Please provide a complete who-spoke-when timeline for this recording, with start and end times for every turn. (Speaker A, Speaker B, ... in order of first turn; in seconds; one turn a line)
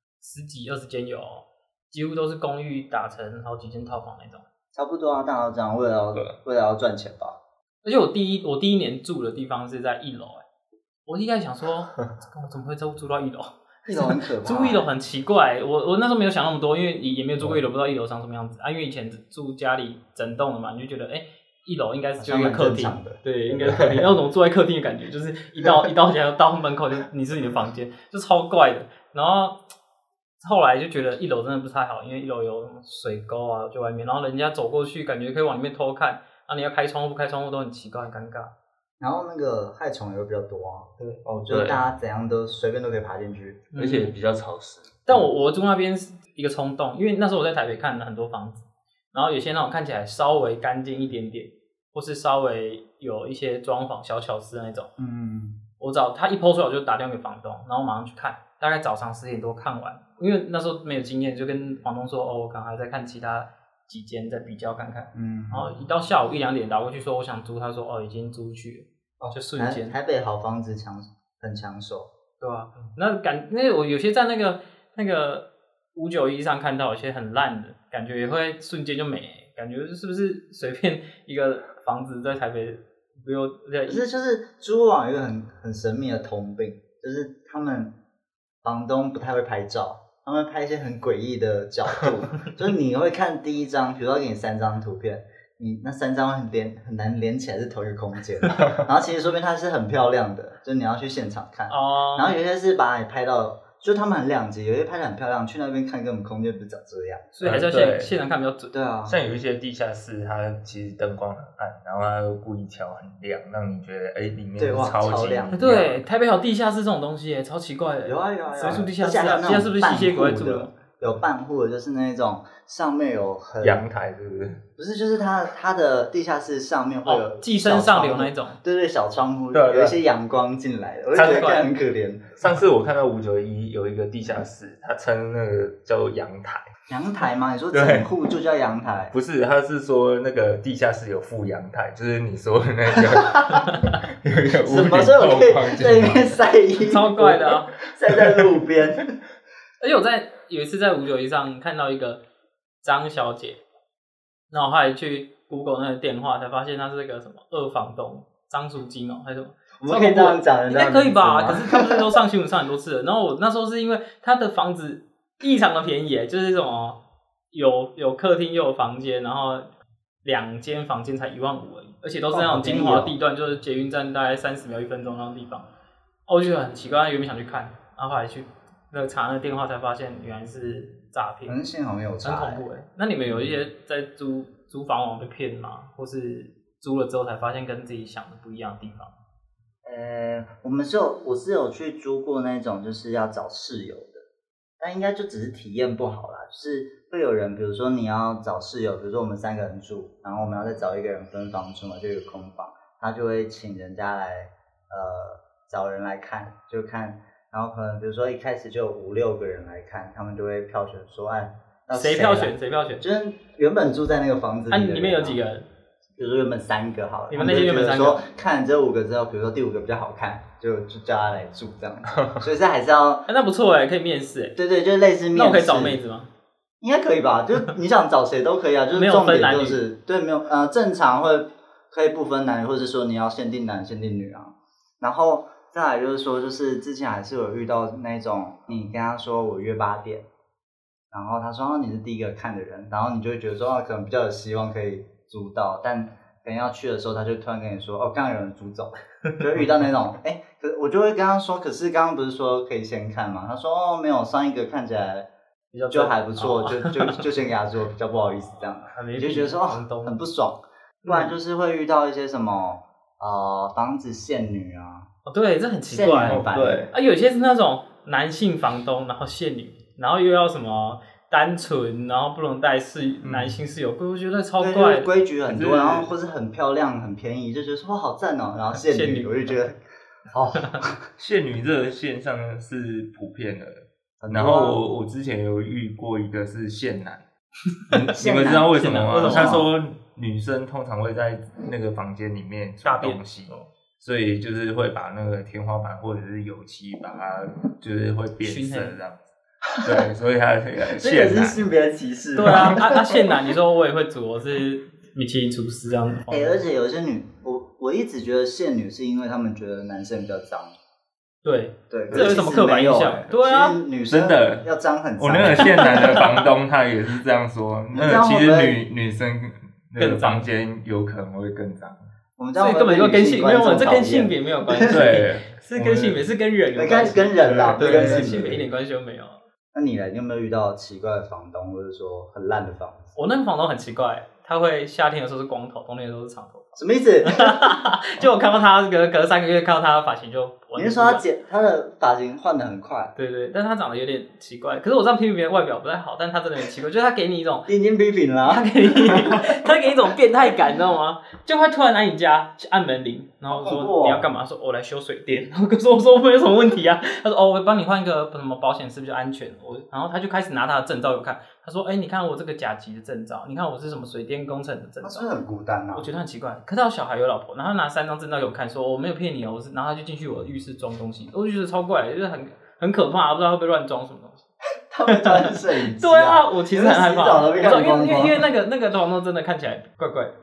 Speaker A: 0.2-4.4
Speaker B: 4.7-7.4
Speaker A: 7.8-10.4
Speaker A: 11.1-29.6
Speaker B: 13.9-14.8
Speaker B: 22.2-23.8
Speaker A: 30.4-38.5
Speaker B: 39.0-40.9
Speaker C: 41.2-41.8
Speaker B: 41.4-43.6
Speaker A: 43.7-44.1
Speaker C: 43.8-45.2
Speaker A: 45.1-54.9
Speaker B: 55.0-55.6
Speaker A: 55.8-70.0
Speaker B: 65.1-65.7
Speaker B: 69.2-72.1
Speaker A: 72.4-84.0
Speaker B: 83.9-87.9
Speaker B: 88.6-107.3
Speaker C: 98.5-98.8
Speaker A: 101.7-102.3
Speaker A: 107.3-108.7
Speaker C: 107.4-108.1
Speaker B: 108.7-109.2
Speaker C: 109.0-116.0
Speaker B: 114.6-116.0
Speaker A: 115.5-120.7
Speaker B: 118.0-123.9
Speaker C: 123.6-124.6
Speaker B: 124.8-132.4
Speaker A: 127.0-128.6
Speaker C: 129.5-130.0
Speaker C: 131.2-131.6
Speaker A: 131.2-131.7
Speaker C: 132.4-136.7
Speaker B: 136.9-139.1
Speaker C: 137.7-138.1
Speaker C: 139.1-146.4
Speaker B: 144.7-147.4
Speaker A: 146.8-147.7
Speaker B: 147.9-149.2
Speaker C: 148.1-148.4
Speaker A: 149.8-152.2
Speaker A: 152.8-153.6
Speaker A: 154.5-167.0
Speaker B: 159.8-162.2
Speaker A: 167.5-169.7
Speaker A: 170.2-175.7
Speaker B: 172.3-173.2
Speaker A: 176.3-181.6
Speaker B: 181.5-182.7
Speaker A: 182.2-189.1
Speaker B: 189.8-194.2
Speaker B: 194.8-215.4
Speaker A: 211.9-213.0
Speaker A: 214.7-215.7
Speaker B: 216.2-223.3
Speaker A: 217.3-218.2
Speaker A: 223.3-224.6
Speaker B: 224.6-226.0
Speaker A: 225.3-226.3
Speaker B: 226.8-240.3
Speaker A: 228.9-229.8
Speaker B: 241.1-255.3
Speaker A: 255.7-257.2
Speaker B: 255.9-265.1
Speaker A: 258.9-260.2
Speaker A: 261.0-261.4
Speaker A: 265.2-275.1
Speaker B: 265.9-266.9
Speaker C: 266.2-266.9
Speaker C: 273.2-273.5
Speaker B: 274.6-279.8
Speaker C: 275.5-276.1
Speaker A: 278.8-279.4
Speaker B: 280.3-281.0
Speaker C: 281.2-287.2
Speaker B: 284.2-284.8
Speaker C: 287.9-299.3
Speaker A: 287.9-289.6
Speaker B: 288.2-289.6
Speaker A: 292.8-293.7
Speaker A: 298.4-299.0
Speaker C: 299.8-301.7
Speaker B: 300.9-303.2
Speaker A: 302.4-306.6
Speaker B: 306.3-310.7
Speaker A: 311.4-313.8
Speaker B: 311.9-316.2
Speaker C: 312.1-312.4
Speaker C: 314.1-314.6
Speaker C: 315.2-322.0
Speaker A: 315.7-316.4
Speaker B: 317.9-318.8
Speaker A: 320.0-320.4
Speaker B: 322.4-325.1
Speaker A: 322.6-329.4
Speaker C: 324.9-326.2
Speaker B: 326.8-328.6
Speaker C: 327.4-328.6
Speaker B: 329.7-333.1
Speaker A: 333.1-336.7
Speaker B: 336.8-337.8
Speaker A: 337.2-341.2
Speaker B: 340.8-343.1
Speaker A: 343.1-347.7
Speaker B: 347.6-349.9
Speaker A: 348.4-365.3
Speaker B: 353.5-354.3
Speaker B: 365.0-366.1
Speaker A: 365.9-374.4
Speaker B: 374.9-378.4
Speaker A: 375.1-380.3